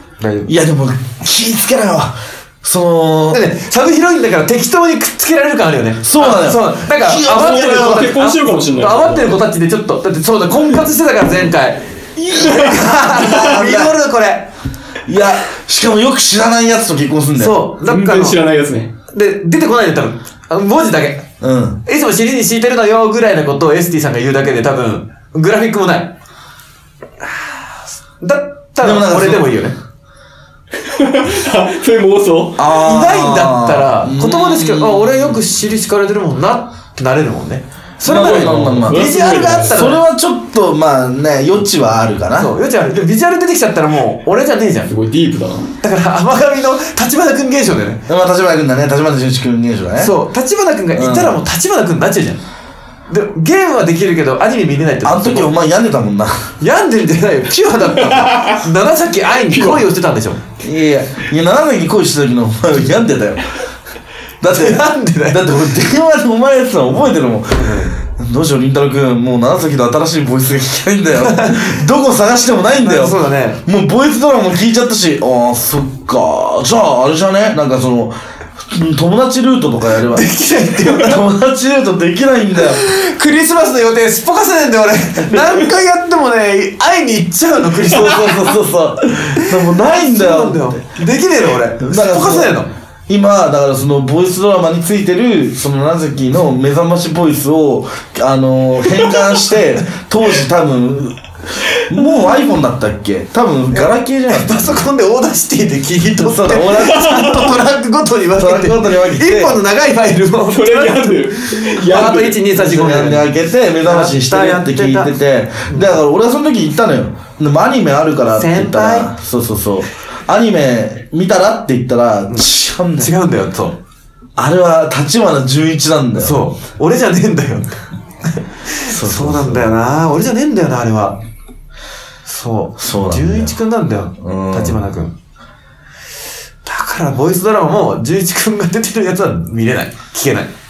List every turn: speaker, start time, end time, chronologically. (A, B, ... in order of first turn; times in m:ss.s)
0:00.2-0:00.5 A
0:00.5-0:03.4 B
0:03.3-0:14.5 A
0:06.0-0:08.1 B
0:07.3-0:09.4 C
0:12.2-0:14.0 B
0:15.1-0:17.6 B
0:17.4-0:18.4 A
0:17.8-0:18.9 C
0:19.1-0:21.3 A
0:21.4-0:21.8 B
0:21.8-0:26.1 A
0:27.2-0:27.6 A
0:28.2-0:29.8 A
0:28.8-0:29.6 B
0:30.8-0:32.6 C
0:32.6-0:35.4 B
0:32.7-0:40.0 A
0:38.0-0:39.2 B
0:38.1-0:39.8 C
0:39.7-0:42.5 B
0:42.4-0:44.9 A
0:44.9-0:45.7 C
0:45.8-0:48.0 A
0:48.1-0:50.1 B
0:50.0-0:52.4 A
0:50.9-0:51.4 B
0:53.1-0:55.5 A
0:55.0-0:56.5 B
0:56.6-1:00.4 A
0:58.1-0:58.6 C
0:59.5-0:59.8 C
1:00.6-1:03.4 B
1:04.4-1:22.8 B
1:04.5-1:05.4 A
1:07.5-1:08.0 A
1:11.2-1:11.7 A
1:12.8-1:13.6 A
1:20.1-1:21.2 A
1:22.6-1:28.5 A
1:27.8-1:30.8 B
1:29.4-1:32.7 A
1:31.8-1:32.6 B
1:33.1-1:41.2 B
1:41.7-1:44.8 B
1:43.7-1:55.1 A
1:46.2-1:47.5 B
1:47.0-1:47.5 C
1:48.4-1:49.6 B
1:50.5-1:52.6 C
1:52.6-2:03.1 B
1:58.4-1:59.1 A
2:03.0-2:03.8 A
2:04.4-2:06.4 B
2:06.2-2:07.7 A
2:08.4-2:11.2 A
2:08.9-2:09.7 B
2:12.2-2:15.1 A
2:12.8-2:13.6 B
2:14.2-2:14.8 B
2:16.6-2:20.5 A